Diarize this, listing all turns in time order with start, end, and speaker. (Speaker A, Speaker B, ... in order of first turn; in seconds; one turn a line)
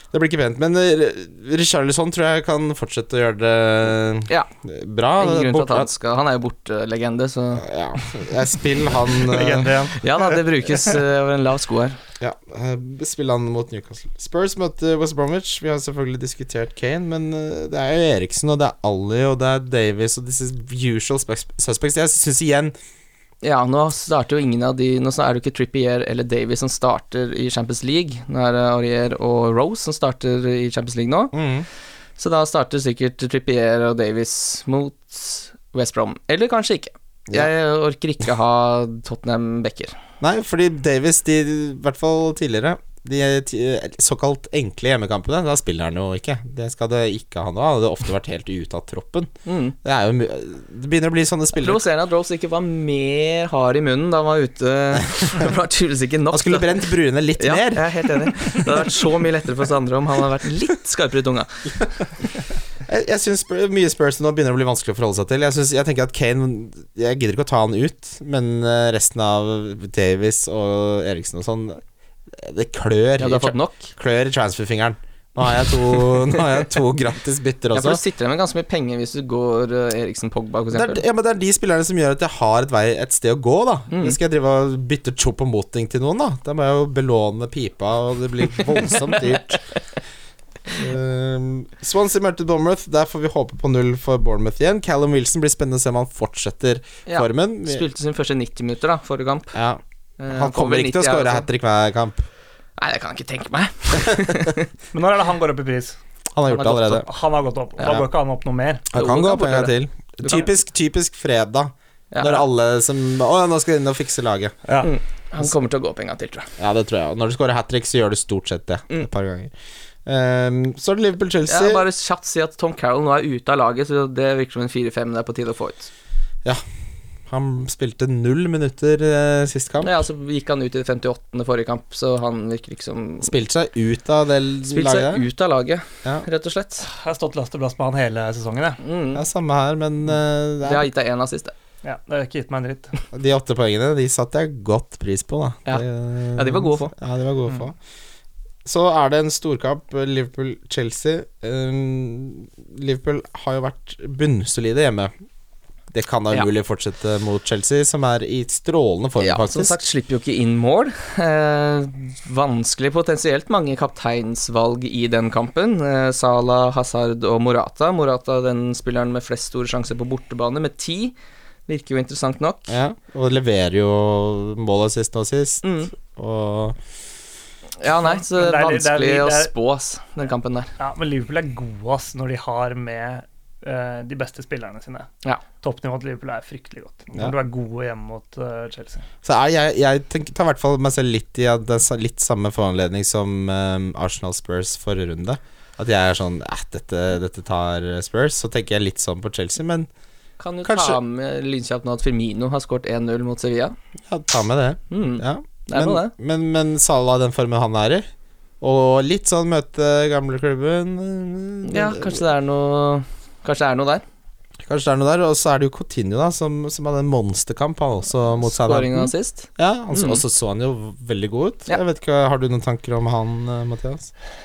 Speaker A: 0.1-5.9
Speaker B: 5.2-7.7
Speaker A: 7.6-9.8
Speaker C: 9.2-10.4
Speaker B: 10.0-12.0
Speaker A: 12.2-22.8
Speaker B: 23.4-31.3
Speaker A: 31.3-31.7
Speaker B: 32.2-40.0
Speaker A: 40.2-49.3
Speaker B: 49.5-49.8
Speaker A: 49.8-51.8
Speaker B: 51.6-56.8
Speaker A: 56.3-58.9
Speaker B: 57.4-61.8
Speaker A: 62.8-78.0
Speaker B: 73.2-73.9
Speaker B: 77.7-81.0
Speaker A: 80.7-89.6
Speaker B: 83.9-84.2
Speaker A: 90.7-97.8
Speaker B: 97.1-99.5
Speaker A: 99.5-102.3
Speaker B: 100.2-101.5
Speaker B: 102.8-104.7
Speaker C: 104.9-106.0
Speaker A: 106.3-107.1
Speaker C: 106.7-108.9
Speaker A: 108.9-114.6
Speaker B: 108.9-110.5
Speaker B: 112.1-112.5
Speaker B: 114.8-116.5
Speaker A: 116.6-119.5
Speaker A: 120.1-121.8
Speaker B: 121.5-125.9
Speaker A: 127.3-129.9
Speaker B: 129.8-133.3
Speaker A: 133.2-135.2
Speaker B: 134.7-136.9
Speaker C: 136.9-138.8
Speaker B: 138.8-139.2
Speaker A: 139.2-140.9
Speaker B: 140.6-141.5
Speaker C: 141.8-143.0
Speaker A: 143.1-147.8
Speaker B: 145.7-146.9
Speaker A: 148.7-155.1
Speaker A: 155.9-159.8
Speaker B: 159.2-171.2
Speaker B: 171.7-172.8
Speaker A: 172.7-176.8
Speaker B: 175.6-175.9
Speaker B: 177.8-180.7
Speaker C: 177.9-179.5
Speaker C: 180.8-185.1
Speaker C: 185.6-189.1
Speaker A: 189.2-199.9
Speaker B: 200.4-203.8
Speaker A: 200.6-201.0
Speaker A: 204.1-208.1
Speaker B: 204.9-206.1
Speaker A: 208.6-212.2
Speaker B: 211.7-214.0
Speaker A: 214.6-224.1
Speaker B: 218.4-220.2